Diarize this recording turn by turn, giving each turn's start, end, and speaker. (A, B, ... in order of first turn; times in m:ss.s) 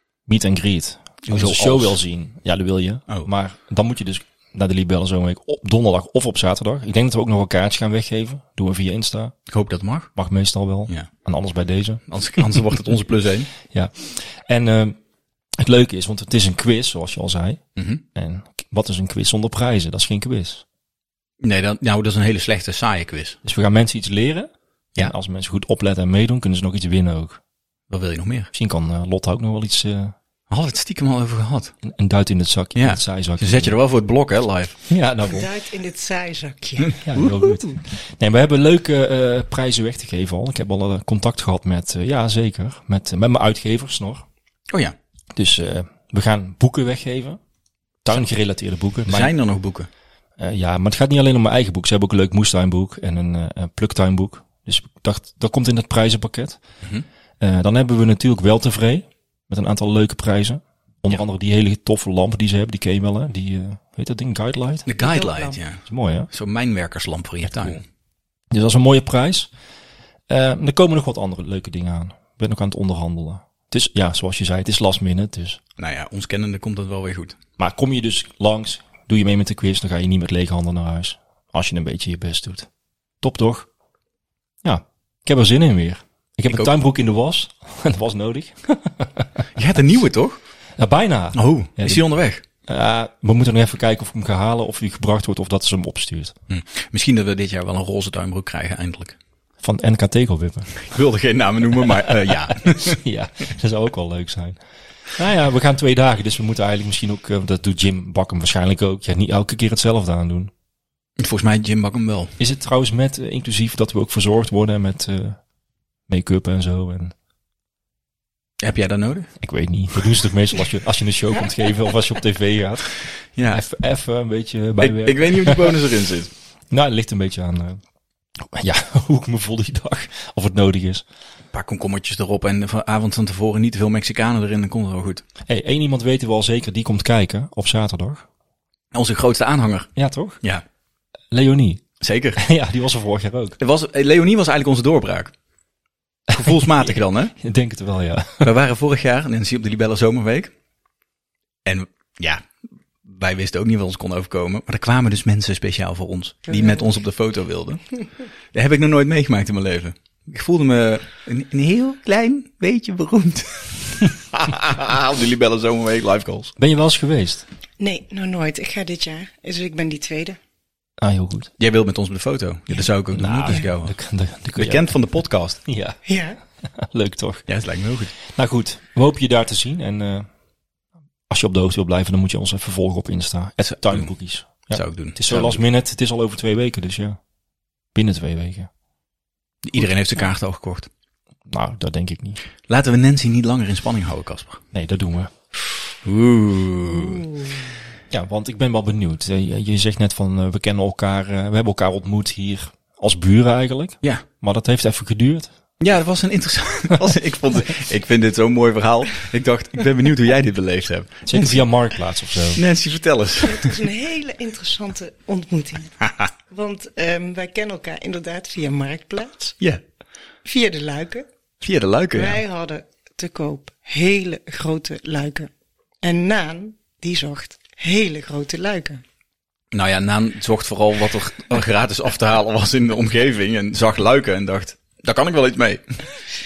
0:00.3-0:09.5 A
0:01.2-0:02.0 B
0:09.5-0:10.1 B
0:10.2-0:12.6 A
0:12.1-0:13.5 B
0:13.7-0:15.0 A
0:15.6-0:20.6 A
0:17.8-0:18.0 B
0:21.4-0:23.4 B
0:23.4-0:27.4 A
0:27.9-0:28.5 B
0:28.5-0:30.2 A
0:30.5-0:31.7 B
0:31.8-0:33.8 A
0:32.8-0:34.9 B
0:34.9-0:35.5 A
0:35.3-0:37.1 C
0:37.0-0:44.3 A
0:45.3-0:47.4 A
0:48.0-0:49.3 A
0:49.1-0:49.9 B
0:50.4-0:56.6 A
0:57.4-1:04.9 A
1:04.9-1:07.8 B
1:05.0-1:05.6 C
1:05.8-1:06.3 A
1:08.5-1:09.5 A
1:10.3-1:15.6 A
1:15.8-1:17.4 B
1:17.6-1:22.7 A
1:23.2-1:23.7 A
1:24.6-1:29.3 A
1:29.6-1:30.4 B
1:30.8-1:32.0 A
1:31.3-1:32.4 B
1:32.7-1:36.4 A
1:36.5-1:39.2 B
1:39.6-1:40.8 A
1:40.8-1:43.0 B
1:42.2-1:44.6 A
1:45.2-1:50.5 A
1:51.2-1:52.4 B
1:52.4-1:55.4 A
1:56.1-1:57.1 A
1:58.6-1:59.3 B
1:59.4-2:03.0 A
2:03.4-2:03.6 B
2:03.5-2:05.8 A
2:04.8-2:06.3 B
2:06.7-2:07.8 A
2:08.4-2:11.0 A
2:11.5-2:15.2 B
2:15.5-2:18.2 A
2:18.9-2:20.6 B
2:20.0-2:20.4 A
2:21.3-2:21.8 A
2:22.0-2:22.4 B
2:22.4-2:23.6 A
2:23.6-2:25.3 B
2:26.3-2:27.3 B
2:26.4-2:28.5 A
2:28.4-2:30.5 B
2:31.6-2:32.5 B
2:33.0-2:37.8 B
2:36.5-2:36.8 C
2:38.5-2:46.6 B
2:46.6-2:47.4 A
2:47.8-2:50.4 C
2:51.0-2:51.5 A
2:51.6-2:53.9 B
2:53.1-2:54.9 A
2:54.6-2:55.6 B
2:55.6-2:56.0 A
2:56.1-2:56.4 C
2:56.6-2:57.5 A
2:57.5-2:58.1 B
2:58.3-3:00.3 A
3:01.3-3:07.2 A
3:03.6-3:04.1 B
3:04.7-3:05.6 B
3:08.0-3:08.7 A
3:09.6-3:10.9 B
3:11.5-3:12.4 A
3:12.7-3:14.6 B
3:14.7-3:15.3 A
3:16.0-3:17.3 B
3:18.1-3:25.5 A
3:25.8-3:31.6 B
3:31.3-3:32.6 A
3:32.6-3:33.8 B
3:33.4-3:39.6 C
3:40.4-3:41.3 C
3:41.6-3:42.4 B
3:42.1-3:45.5 C
3:46.0-3:49.0 C
3:49.7-3:55.8 B